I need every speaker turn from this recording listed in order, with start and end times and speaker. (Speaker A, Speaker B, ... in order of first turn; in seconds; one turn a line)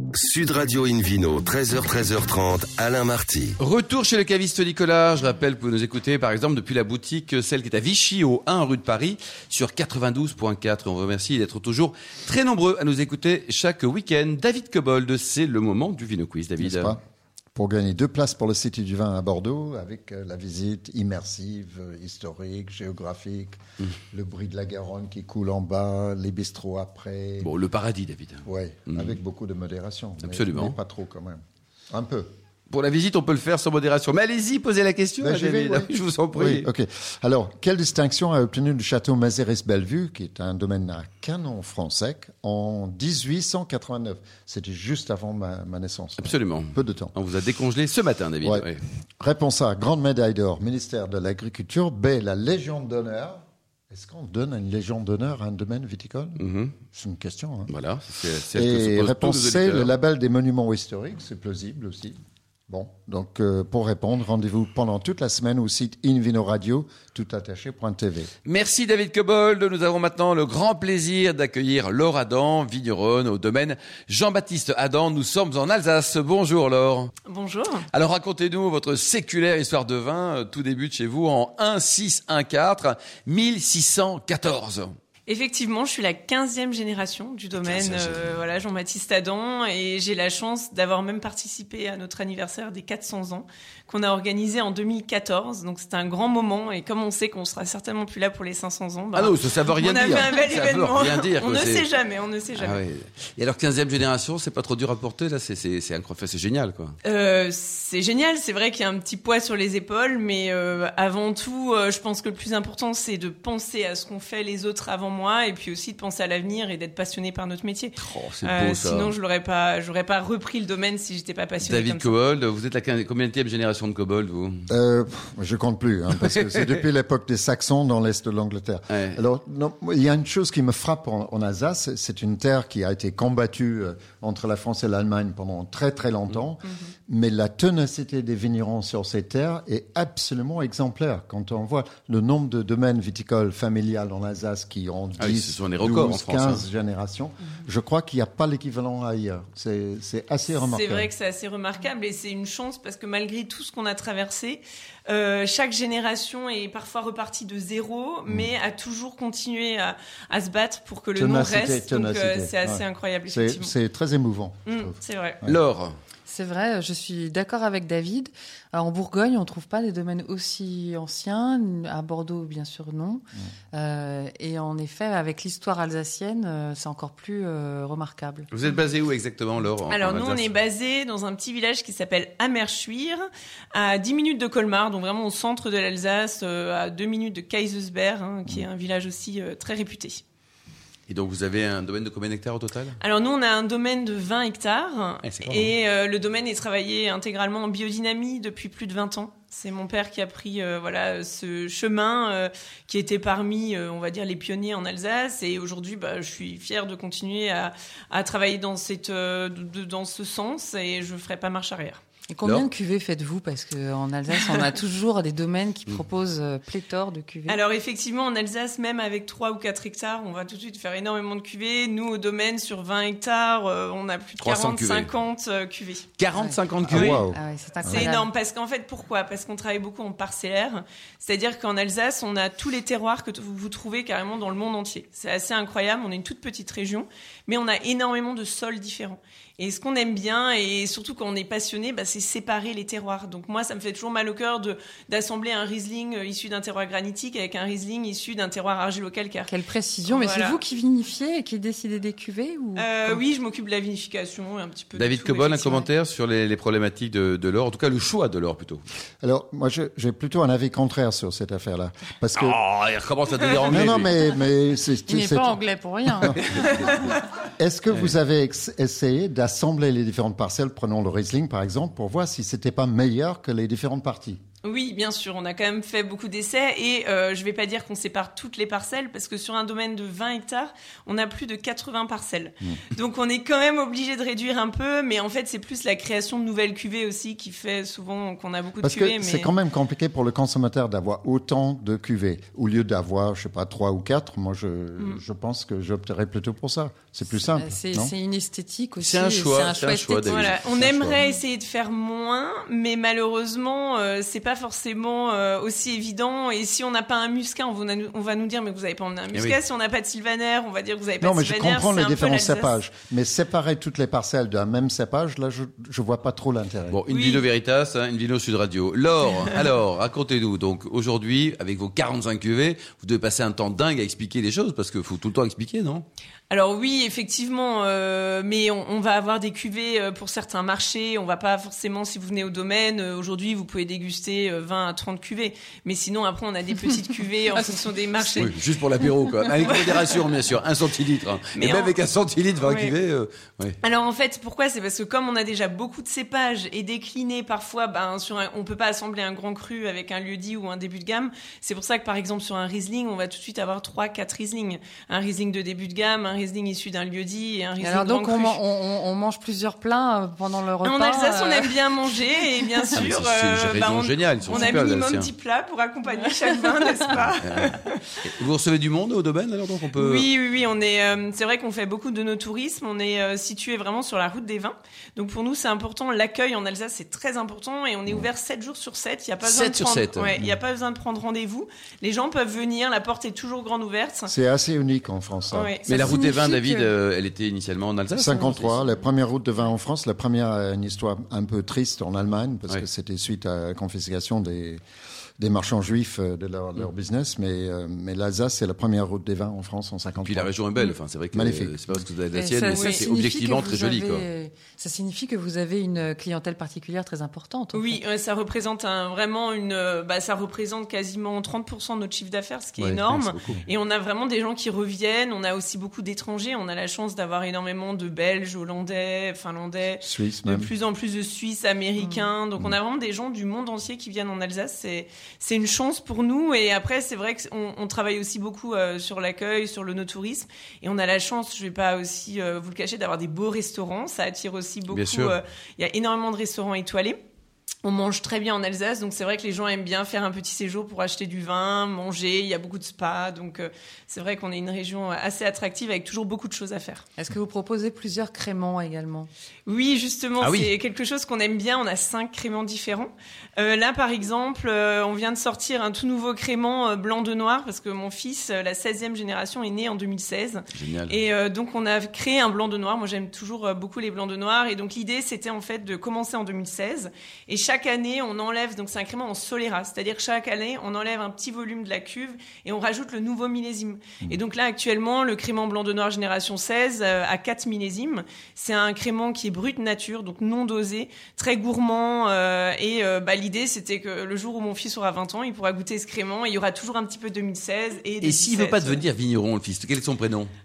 Speaker A: 0.1-3.6
Speaker B: 3.6-17.0
Speaker C: 16.6-17.0
Speaker C: 17.6-23.6
Speaker C: 24.1-27.5
Speaker B: 27.4-29.2
Speaker C: 28.4-32.3
Speaker B: 30.2-30.8
Speaker B: 32.7-36.7
Speaker C: 35.2-47.1
Speaker B: 46.2-48.8
Speaker C: 48.4-57.7
Speaker B: 56.4-56.7
Speaker B: 57.7-59.9
Speaker C: 58.5-62.2
Speaker C: 62.7-68.3
Speaker B: 68.5-77.1
Speaker D: 77.3-77.9
Speaker B: 77.9-84.9
Speaker D: 85.3-102.8
Speaker B: 87.6-88.2
Speaker B: 99.1-101.9
Speaker B: 102.6-107.0
Speaker D: 107.0-122.2
Speaker B: 118.0-119.2
Speaker B: 121.6-124.7
Speaker C: 124.7-151.1
Speaker B: 128.9-129.2
Speaker B: 145.2-146.7
Speaker D: 150.6-163.7
Speaker C: 161.2-165.6
Speaker D: 164.7-165.4
Speaker B: 165.4-165.9
Speaker E: 166.3-178.5
Speaker B: 178.5-180.6
Speaker D: 179.9-190.2
Speaker B: 191.1-193.0
Speaker D: 193.0-212.0
Speaker B: 195.2-195.7
Speaker E: 212.3-217.6
Speaker D: 214.3-214.6
Speaker D: 217.5-226.2
Speaker B: 224.4-225.1
Speaker B: 226.2-227.2
Speaker E: 226.3-226.8
Speaker C: 226.8-228.1
Speaker D: 226.9-227.2
Speaker E: 227.3-228.3
Speaker D: 227.9-249.5
Speaker E: 249.5-253.2
Speaker D: 250.1-250.6
Speaker D: 252.8-255.8
Speaker B: 254.9-258.8
Speaker C: 259.2-262.6
Speaker B: 262.4-264.1
Speaker C: 263.7-265.6
Speaker E: 265.1-266.7
Speaker C: 266.1-266.4
Speaker C: 267.6-274.4
Speaker D: 274.6-289.5
Speaker C: 288.8-298.1
Speaker E: 297.4-300.4
Speaker B: 299.0-300.6
Speaker D: 300.2-312.8
Speaker C: 300.8-301.1
Speaker B: 309.3-309.6
Speaker C: 311.2-317.0
Speaker B: 316.9-326.1
Speaker D: 317.1-317.5
Speaker D: 326.5-338.7
Speaker E: 337.5-339.0
Speaker B: 338.4-343.8
Speaker D: 339.6-340.3
Speaker D: 341.6-341.9
Speaker D: 342.6-342.9
Speaker D: 343.8-358.6
Speaker E: 357.8-362.2
Speaker D: 360.8-368.1
Speaker B: 362.9-365.3
Speaker E: 364.5-364.8
Speaker E: 366.1-366.6
Speaker B: 367.4-370.3
Speaker D: 369.9-384.3
Speaker B: 379.4-380.3
Speaker C: 384.3-385.7
Speaker D: 385.5-385.9
Speaker E: 385.9-386.9
Speaker B: 385.9-388.8
Speaker C: 388.1-394.8
Speaker C: 395.4-400.6
Speaker B: 400.2-404.3
Speaker C: 401.3-401.8
Speaker E: 402.3-408.0
Speaker D: 402.7-403.1
Speaker D: 407.7-437.2
Speaker C: 412.8-413.6
Speaker C: 420.0-420.7
Speaker E: 422.0-422.3
Speaker B: 434.9-435.4
Speaker D: 437.8-447.1
Speaker E: 447.2-449.3
Speaker D: 449.7-489.0
Speaker B: 450.4-450.7
Speaker B: 460.8-461.2
Speaker B: 488.2-490.5